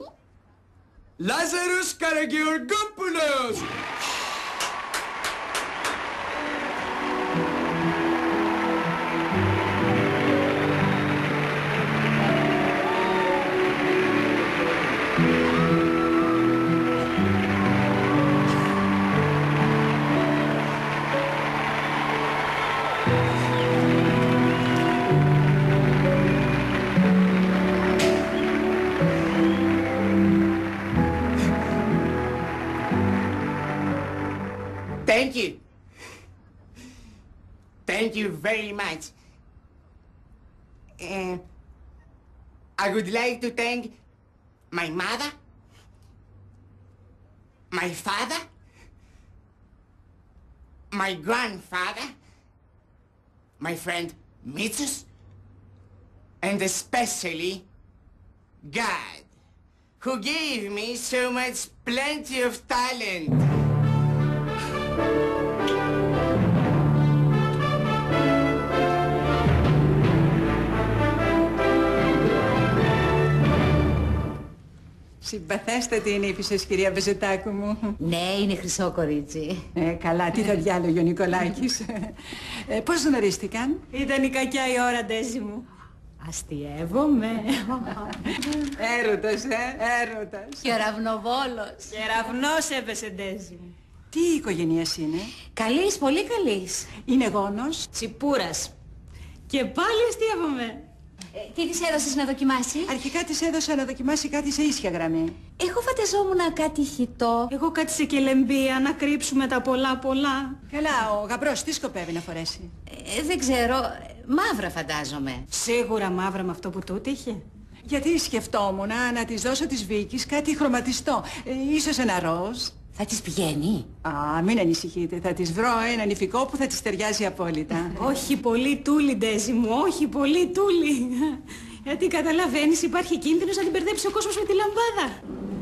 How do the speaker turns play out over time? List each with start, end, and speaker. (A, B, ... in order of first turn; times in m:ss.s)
0:01.2-0:03.7 A
0:35.0-0:35.6 B
0:37.8-0:39.1 B
0:41.0-0:41.4 B
0:42.8-0:43.9 B
0:44.7-0:45.4 B
0:47.7-0:48.4 B
0:50.9-0:52.1 B
0:53.6-0:55.1 B
0:56.4-0:57.6 B
0:58.6-0:59.3 B
1:00.0-1:03.4 B
1:15.2-1:18.0 C
1:18.0-1:19.6 D
1:19.8-1:22.1 C
1:22.7-1:23.8 C
1:23.9-1:25.6 E
1:26.2-1:28.0 E
1:28.8-1:30.7 C
1:30.6-1:31.9 D
1:31.9-1:33.7 E
1:34.1-1:35.3 C
1:35.6-1:36.8 D
1:36.9-1:37.8 C
1:37.9-1:38.7 E
1:39.5-1:40.8 E
1:41.3-1:42.9 D
1:42.8-1:45.4 C
1:45.6-1:47.5 D
1:47.5-1:50.6 E
1:50.7-1:52.7 C
1:53.0-1:55.4 D
1:55.5-1:57.4 E
1:57.8-2:02.7 C
2:03.0-2:03.9 D
2:04.0-2:07.9 C
2:07.9-2:15.2 E